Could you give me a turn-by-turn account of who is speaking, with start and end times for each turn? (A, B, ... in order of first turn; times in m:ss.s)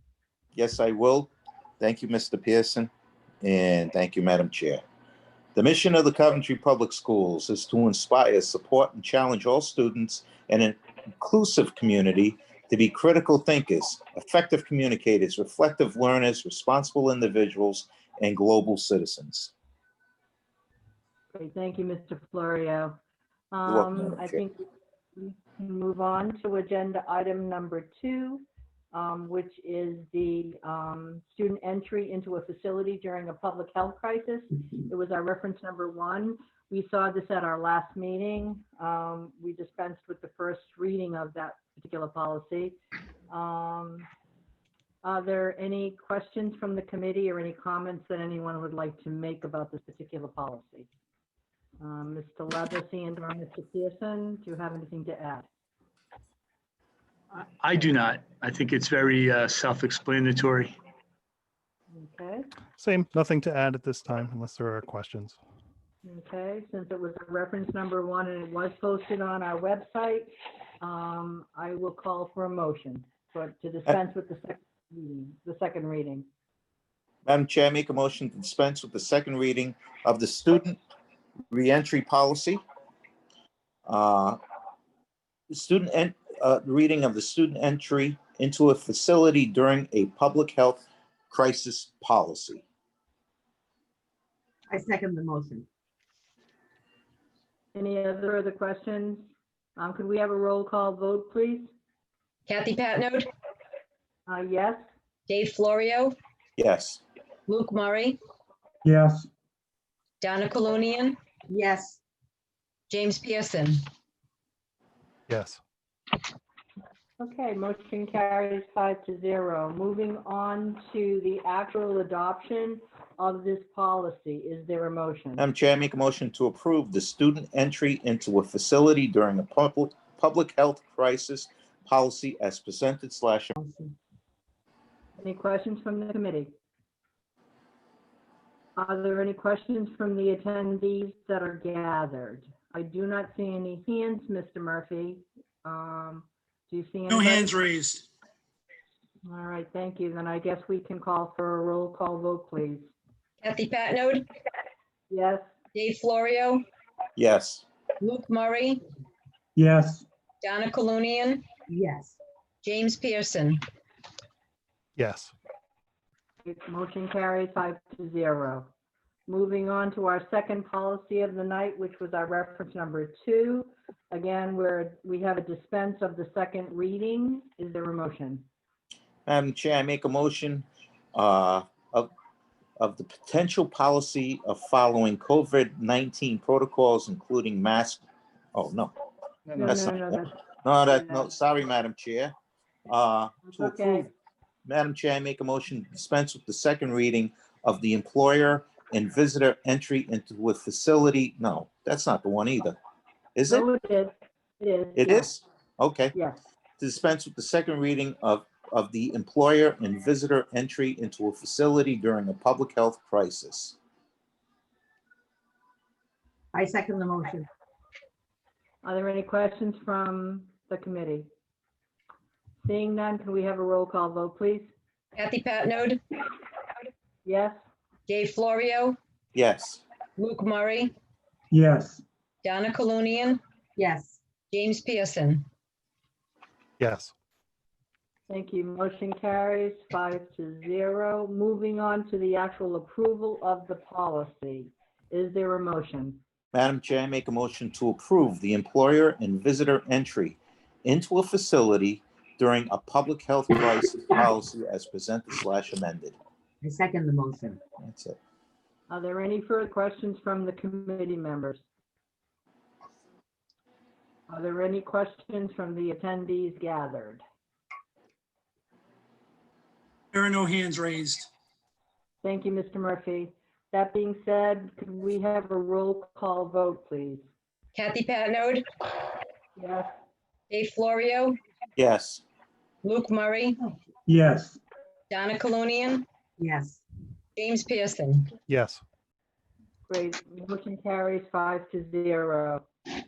0:00.5-0:02.9 A
0:03.4-0:04.8 A
0:05.5-0:19.5 A
0:21.3-0:23.0 B
0:23.5-0:24.6 B
0:23.6-0:24.4 A
0:25.2-0:42.8 B
0:43.3-0:44.1 B
0:45.0-0:50.9 B
0:51.8-0:55.5 B
0:57.3-1:00.7 C
1:01.9-1:02.5 B
1:02.8-1:05.4 D
1:06.0-1:16.3 B
1:17.2-1:20.8 A
1:21.5-1:22.6 A
1:23.9-1:24.4 A
1:25.5-1:32.6 A
1:34.7-1:35.7 E
1:37.7-1:41.7 B
1:42.5-1:43.3 F
1:44.3-1:44.8 B
1:45.3-1:46.1 F
1:46.6-1:47.0 A
1:47.5-1:48.2 F
1:48.8-1:49.3 G
1:50.2-1:51.2 F
1:51.5-1:52.0 E
1:52.9-1:53.8 F
1:55.3-1:55.6 D
1:57.2-2:05.4 B
2:05.4-2:13.5 A
2:13.6-2:13.9 E
2:15.2-2:16.5 B
2:18.8-2:27.6 B
2:27.1-2:28.1 H
2:29.2-2:32.9 B
2:33.4-2:34.3 F
2:35.1-2:35.5 B
2:35.7-2:36.6 F
2:37.2-2:37.6 A
2:38.0-2:38.8 F
2:39.6-2:40.0 G
2:40.4-2:41.4 F
2:41.7-2:42.2 E
2:42.6-2:43.6 F
2:45.0-2:45.3 D
2:46.4-2:48.7 B
2:49.3-2:58.4 B
2:59.2-3:02.1 A
3:02.8-3:08.9 A
3:09.6-3:10.4 B
3:09.6-3:12.3 A
3:10.9-3:11.3 B
3:12.9-3:14.1 A
3:13.5-3:14.1 B
3:14.6-3:22.8 A
3:23.3-3:23.6 A
3:23.5-3:25.3 B
3:25.0-3:26.1 A
3:26.8-3:33.8 A
3:36.5-3:37.4 E
3:38.8-3:41.3 B
3:42.6-3:44.7 B
3:45.1-3:46.0 F
3:47.2-3:47.6 B
3:48.1-3:49.0 F
3:49.3-3:49.8 A
3:50.2-3:50.9 F
3:51.5-3:52.0 G
3:52.4-3:53.4 F
3:53.8-3:54.2 E
3:54.5-3:55.4 F
3:56.8-3:57.1 D
3:58.3-4:06.2 B
4:06.5-4:16.2 A
4:16.6-4:17.6 E
4:17.8-4:18.2 A
4:18.9-4:21.6 B
4:24.3-4:27.2 B
4:30.1-4:31.3 H
4:32.2-4:37.2 B
4:37.7-4:38.6 F
4:39.6-4:39.9 B
4:40.5-4:41.4 F
4:41.8-4:42.2 A
4:42.8-4:43.6 F
4:44.1-4:44.6 G
4:45.1-4:46.0 F
4:46.4-4:46.8 E
4:47.4-4:48.3 F
4:48.5-4:48.8 D
4:49.9-4:52.6 B